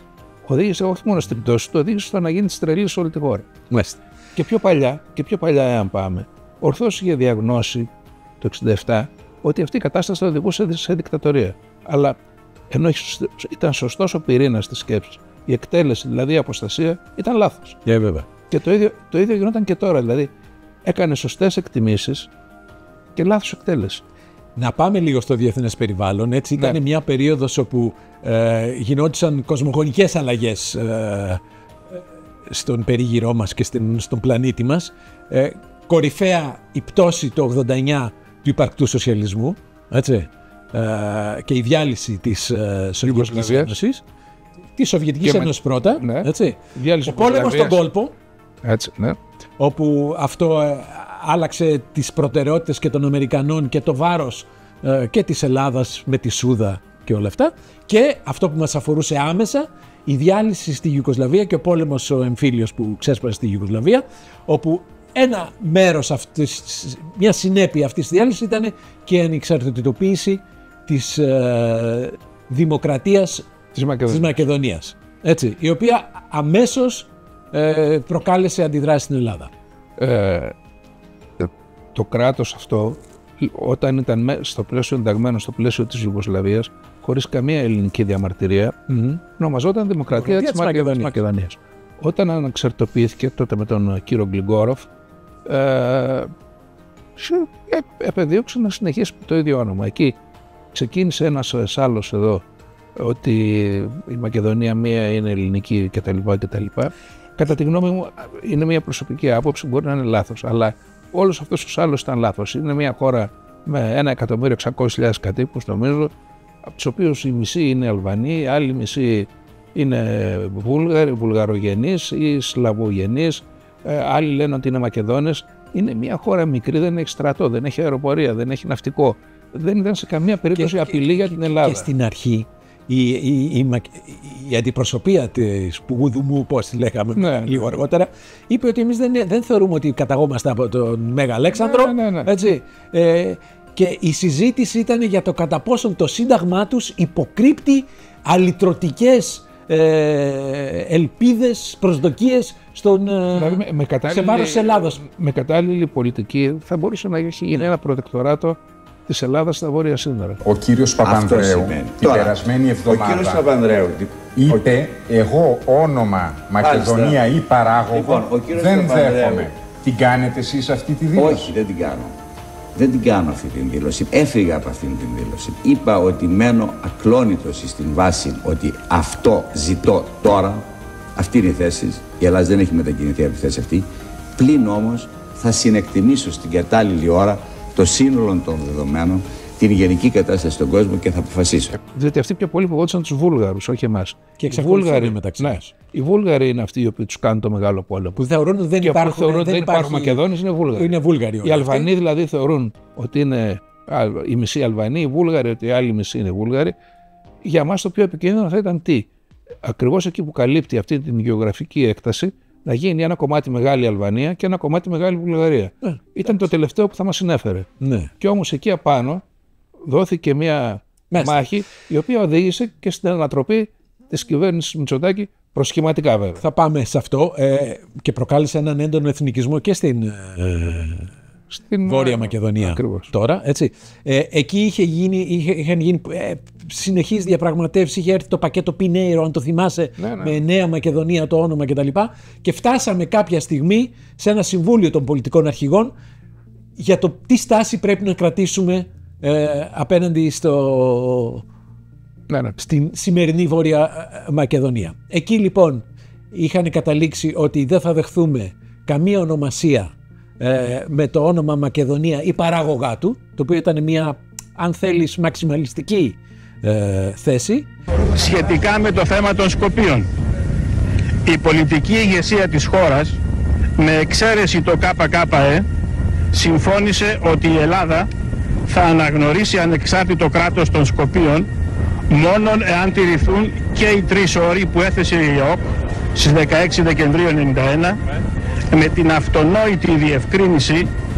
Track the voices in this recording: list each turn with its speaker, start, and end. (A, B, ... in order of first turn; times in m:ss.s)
0:00.4-0:03.5 A
0:03.7-0:04.0 B
0:04.4-0:07.9 A
0:08.4-0:12.2 A
0:12.7-0:17.8 A
0:17.8-0:18.3 B
0:18.5-0:20.3 A
0:20.8-0:22.3 A
0:23.2-0:24.0 A
0:24.6-0:31.4 B
0:31.9-0:44.0 B
0:43.0-0:43.7 A
0:44.8-0:48.1 B
0:45.2-0:47.8 A
0:48.6-0:49.2 A
0:49.6-1:13.5 B
1:13.7-1:14.4 A
1:14.1-1:19.5 B
1:20.0-1:20.5 A
1:21.4-1:28.8 A
1:28.9-1:29.2 B
1:29.4-1:34.9 A
1:30.1-1:31.1 B
1:35.4-1:36.3 A
1:37.2-1:40.2 A
1:40.7-1:42.4 A
1:43.0-1:56.1 A
1:56.7-2:11.9 A
2:10.5-2:35.0 B
2:17.2-2:17.8 A
2:21.5-2:22.3 A
2:33.4-2:40.4 A
2:40.4-2:51.5 C
2:41.0-2:44.3 D
2:46.6-2:47.2 D
2:47.9-2:49.5 D
2:51.1-2:52.1 D
2:52.7-3:11.8 D
3:11.8-3:18.2 A
3:14.4-3:15.7 B
3:18.2-3:20.2 B
3:18.8-3:26.7 A
3:20.7-3:21.9 B
3:27.4-3:29.1 A
3:29.6-3:37.7 A
3:35.8-3:36.3 B
3:37.8-3:38.1 B
3:38.2-3:39.2 A
3:39.8-3:46.4 A
3:41.1-3:41.4 B
3:46.4-3:51.1 B
3:51.5-3:53.1 A
3:51.8-4:05.9 B
4:00.0-4:00.4 A
4:06.8-4:11.4 B
4:12.3-4:12.6 A
4:12.6-4:27.7 B
4:28.1-4:30.1 E
4:31.2-4:33.2 E
4:33.8-4:35.6 E
4:36.3-4:38.1 E
4:38.7-4:41.5 E
4:42.1-4:48.0 E
4:48.7-4:50.9 E